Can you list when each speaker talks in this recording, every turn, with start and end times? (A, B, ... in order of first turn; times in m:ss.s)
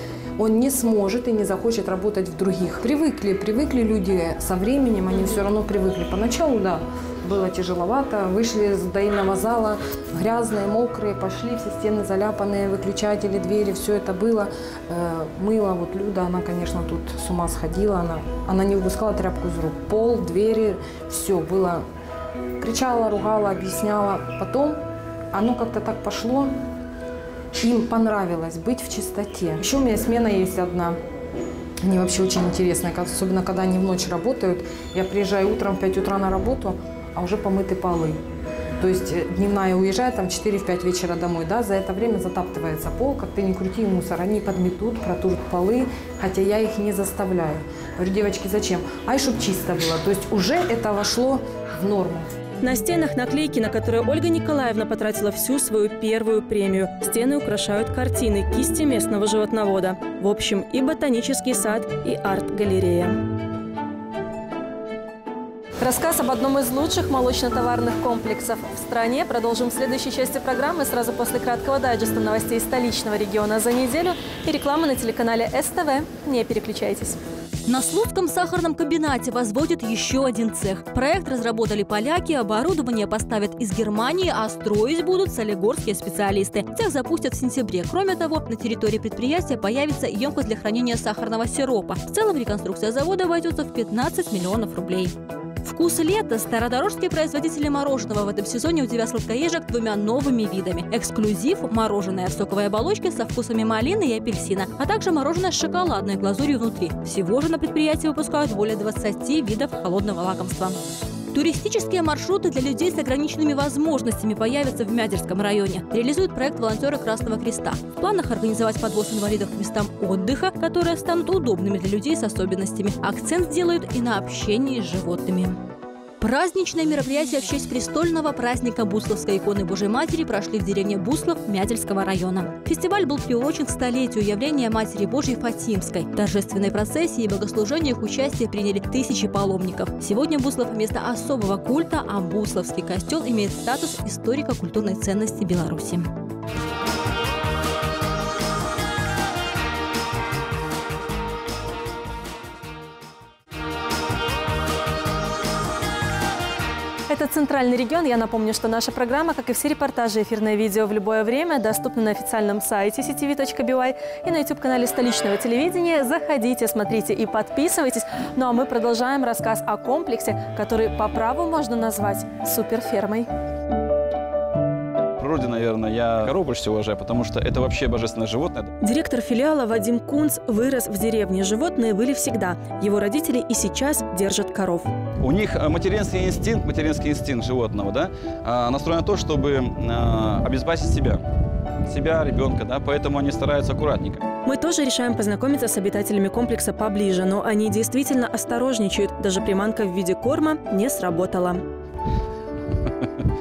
0:00.4-0:21.8 A
0:22.6-0:26.6 A
0:27.6-0:31.0 A
0:31.8-0:38.2 A
0:38.8-0:52.3 A
0:52.6-1:03.2 B
1:05.8-1:17.2 B
1:17.7-1:50.8 C
1:51.3-2:05.6 C
2:06.2-2:26.1 C
2:37.1-2:53.3 B
2:55.2-2:58.7 D
2:58.8-3:04.9 B
3:05.2-3:11.2 D
3:11.8-3:14.2 D
3:14.4-3:21.6 B